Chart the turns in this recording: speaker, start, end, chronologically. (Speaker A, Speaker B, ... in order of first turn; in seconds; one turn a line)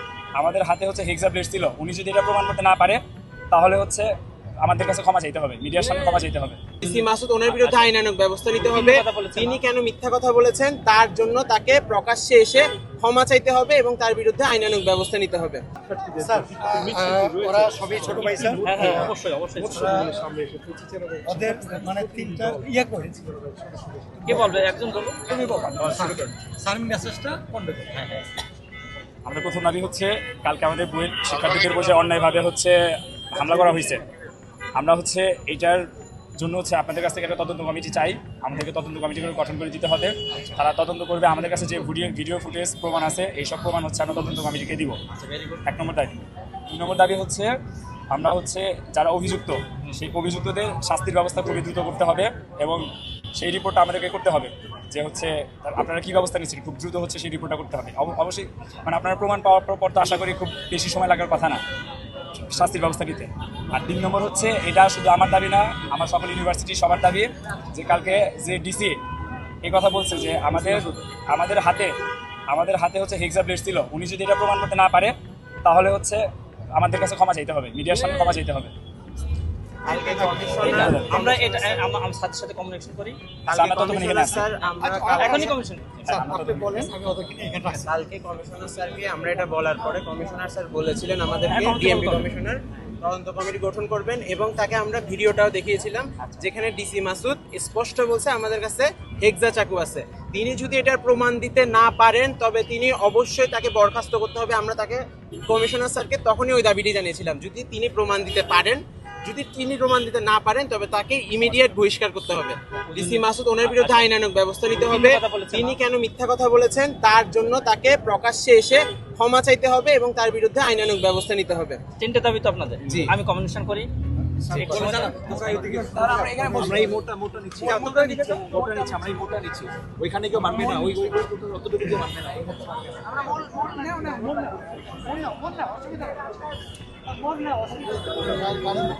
Speaker A: 0.3-3.0
Speaker A: 3.5-4.1
Speaker A: 4.6-6.7
Speaker B: 6.8-15.6
Speaker C: 6.8-7.9
Speaker C: 8.6-9.6
Speaker D: 16.0-19.1
Speaker E: 16.1-19.0
Speaker C: 18.6-20.1
Speaker D: 19.8-24.4
Speaker C: 24.2-26.0
Speaker D: 25.3-28.3
Speaker A: 29.2-34.0
Speaker A: 34.8-35.8
Speaker A: 36.4-45.0
Speaker C: 45.1-45.6
Speaker A: 45.6-47.5
Speaker A: 48.1-61.6
Speaker A: 62.4-69.0
Speaker A: 69.6-71.9
Speaker A: 72.5-76.2
Speaker A: 76.7-78.7
Speaker B: 79.8-81.8
Speaker C: 80.5-83.2
Speaker A: 80.6-81.1
Speaker B: 83.5-85.5
Speaker A: 83.5-84.4
Speaker D: 84.8-85.5
Speaker C: 85.2-86.2
Speaker A: 86.0-86.9
Speaker D: 86.1-87.8
Speaker B: 87.8-121.8
Speaker C: 91.5-92.3
Speaker C: 112.9-114.1
Speaker C: 114.8-115.8
Speaker C: 122.0-123.9
Speaker B: 122.8-123.1
Speaker C: 124.5-125.8
Speaker D: 124.5-126.9
Speaker B: 124.7-126.8
Speaker C: 126.6-126.9
Speaker A: 126.9-128.8
Speaker E: 127.1-127.4
Speaker B: 127.6-128.6
Speaker C: 127.6-128.9
Speaker E: 128.4-132.6
Speaker A: 129.3-130.9